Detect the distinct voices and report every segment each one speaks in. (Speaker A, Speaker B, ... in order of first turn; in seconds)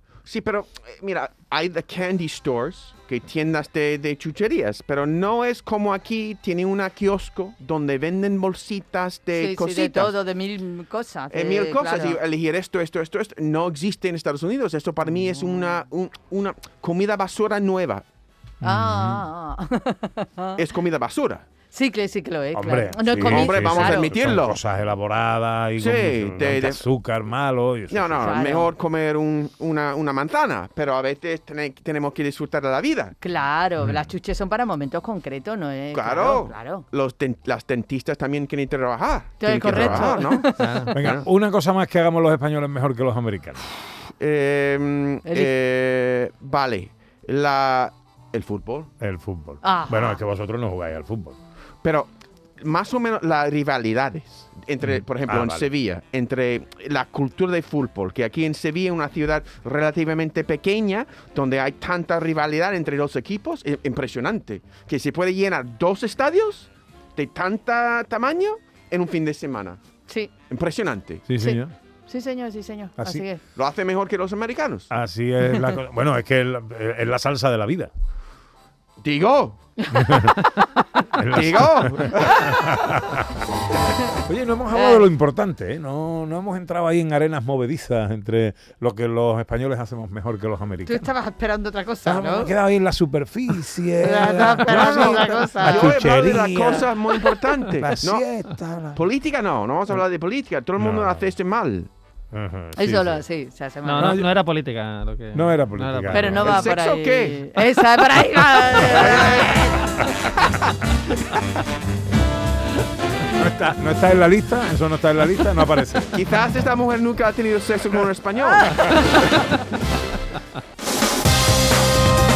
Speaker A: 0.2-10.1, 11.3-18.0, 20.6-21.4, 23.1-24.6, 25.8-26.8, 27.9-33.1, 35.9-41.3, 44.2-48.9, 51.8-69.8, 70.5-71.2, 73.5-74.9, 79.0-79.6, 81.3-82.6, 94.6-98.3, 98.9-101.9, 106.4-107.5, 108.7-110.8, 116.1-119.2
Speaker B: 9.3-12.2, 18.6-20.6, 21.7-24.1, 28.2-28.7, 33.2-36.9, 39.4-40.8, 45.2-45.5, 49.6-50.2, 70.1-70.3, 71.4-73.4, 79.8-80.2, 84.7-85.1, 90.8-92.5, 94.0-96.0, 102.8-104.2, 106.1-109.7, 118.4-119.5
Speaker C: 18.6-19.2, 22.5-28.2, 39.6-43.6, 49.0-51.4, 54.8-55.7, 71.3-71.7, 73.0-73.2, 74.9-77.9, 79.9-80.3, 81.1-83.2, 84.2-91.1, 92.0-99.0, 100.8-101.3, 102.3-103.2, 104.0-104.3, 105.3-106.6, 113.3-116.1
Speaker D: 40.6-40.9, 103.8-106.5